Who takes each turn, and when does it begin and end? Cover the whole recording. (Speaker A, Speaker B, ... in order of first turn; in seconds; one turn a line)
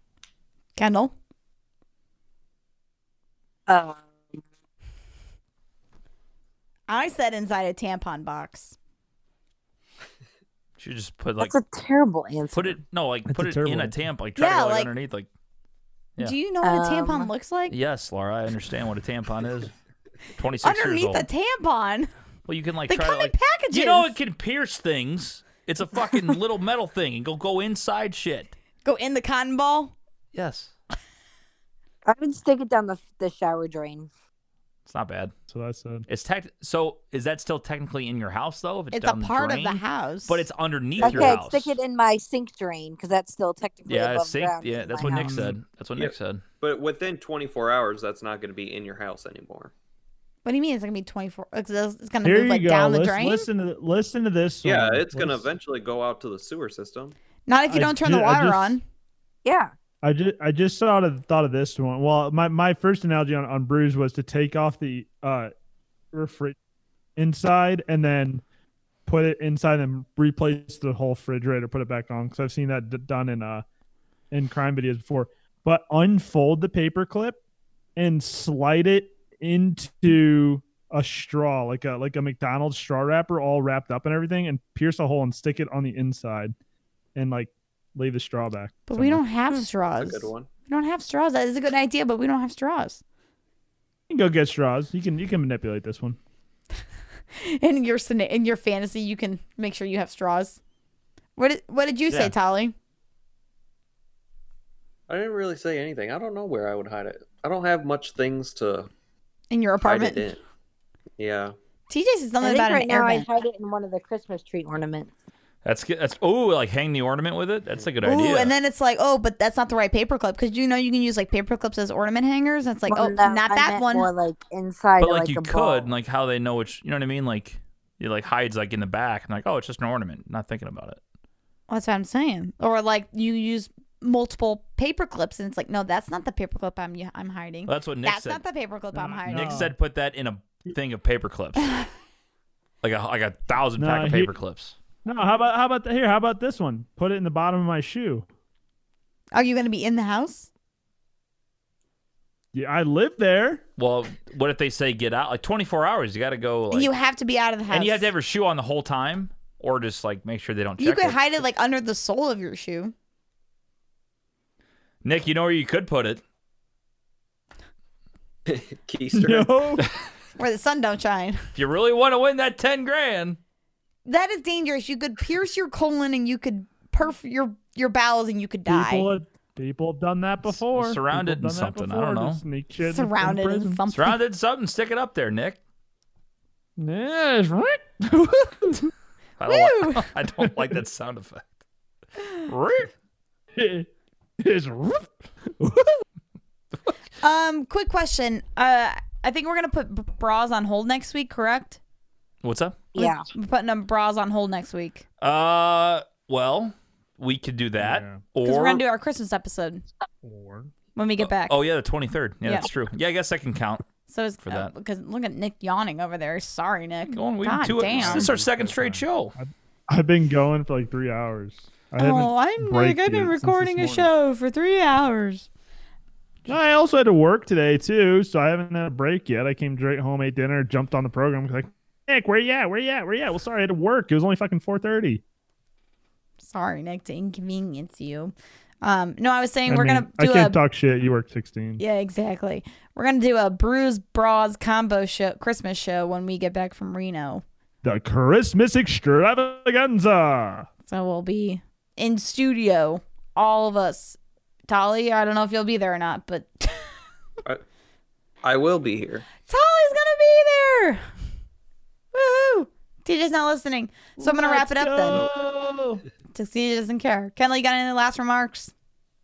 Speaker A: 0.8-1.1
Speaker B: 3.7-4.3
Speaker A: 6.9-8.8
Speaker C: 10.8-11.6
Speaker B: 11.4-12.8
Speaker C: 12.5-15.3
Speaker D: 13.3-13.9
Speaker A: 14.4-14.9
Speaker A: 16.2-17.8
Speaker B: 16.6-17.3
Speaker C: 17.7-19.7
Speaker C: 20.4-21.3
Speaker A: 20.6-22.1
Speaker C: 22.5-28.6
Speaker A: 22.9-24.1
Speaker A: 28.8-29.9
Speaker C: 30.3-30.7
Speaker B: 32.1-34.1
Speaker C: 34.9-35.3
Speaker D: 35.5-36.1
Speaker C: 36.1-41.8
Speaker A: 38.9-40.4
Speaker E: 41.0-41.4
Speaker B: 41.0-45.5
Speaker C: 43.9-46.4
Speaker D: 45.0-45.6
Speaker E: 46.0-49.7
Speaker A: 50.4-53.5
Speaker D: 52.2-55.5
Speaker E: 54.6-57.1
Speaker A: 57.5-58.8
Speaker D: 57.7-58.8
Speaker B: 59.4-59.7
Speaker D: 60.0-65.5
Speaker D: 66.1-66.5
Speaker D: 67.2-68.4
Speaker D: 69.0-73.6
Speaker D: 74.3-77.4
Speaker D: 78.0-86.5
Speaker D: 87.1-89.2
Speaker A: 88.9-93.0
Speaker E: 90.0-90.5
Speaker D: 94.1-96.2
Speaker A: 97.3-100.6
Speaker A: 101.3-102.7
Speaker E: 105.1-108.9
Speaker A: 109.5-110.3
Speaker E: 109.8-110.4
Speaker E: 111.2-111.5
Speaker A: 111.9-113.3
Speaker B: 112.4-115.1
Speaker C: 115.6-118.5
Speaker A: 118.0-124.1
Speaker B: 122.9-125.9
Speaker C: 125.0-131.0
Speaker A: 131.7-139.7
Speaker C: 137.7-138.4
Speaker D: 138.9-139.7
Speaker C: 139.3-141.8
Speaker C: 142.8-144.8
Speaker D: 143.8-144.3
Speaker D: 145.0-148.3
Speaker A: 149.3-150.5
Speaker D: 152.5-153.6
Speaker C: 153.8-156.9
Speaker A: 156.7-158.1
Speaker C: 157.7-161.2
Speaker A: 160.8-162.9
Speaker C: 165.0-166.2
Speaker E: 168.4-169.5
Speaker D: 169.1-169.9
Speaker A: 170.4-171.5
Speaker C: 171.5-173.4
Speaker A: 174.1-179.1
Speaker D: 178.7-183.8
Speaker C: 180.5-182.4
Speaker A: 182.8-184.2
Speaker C: 183.9-185.6
Speaker D: 186.8-188.9
Speaker C: 189.4-191.5
Speaker A: 189.5-190.1
Speaker D: 190.4-190.8
Speaker C: 192.4-192.9
Speaker D: 193.5-193.9
Speaker D: 194.4-196.0
Speaker A: 197.2-201.8
Speaker C: 202.4-202.9
Speaker B: 202.9-203.3
Speaker A: 203.0-205.0
Speaker C: 205.2-208.8
Speaker D: 207.8-208.2
Speaker A: 208.4-209.8
Speaker D: 210.2-210.7
Speaker A: 210.9-211.6
Speaker C: 211.2-213.8
Speaker A: 214.1-218.3
Speaker C: 214.4-214.7
Speaker C: 217.1-219.3
Speaker D: 217.8-224.1
Speaker A: 222.0-225.5
Speaker D: 226.5-235.2
Speaker A: 236.4-240.6
Speaker D: 239.7-241.8
Speaker A: 241.8-247.4
Speaker D: 247.8-250.7
Speaker A: 250.9-254.2
Speaker A: 254.7-256.9
Speaker E: 258.4-259.3
Speaker A: 259.5-261.0
Speaker A: 262.1-265.2
Speaker D: 264.2-266.0
Speaker A: 266.3-268.7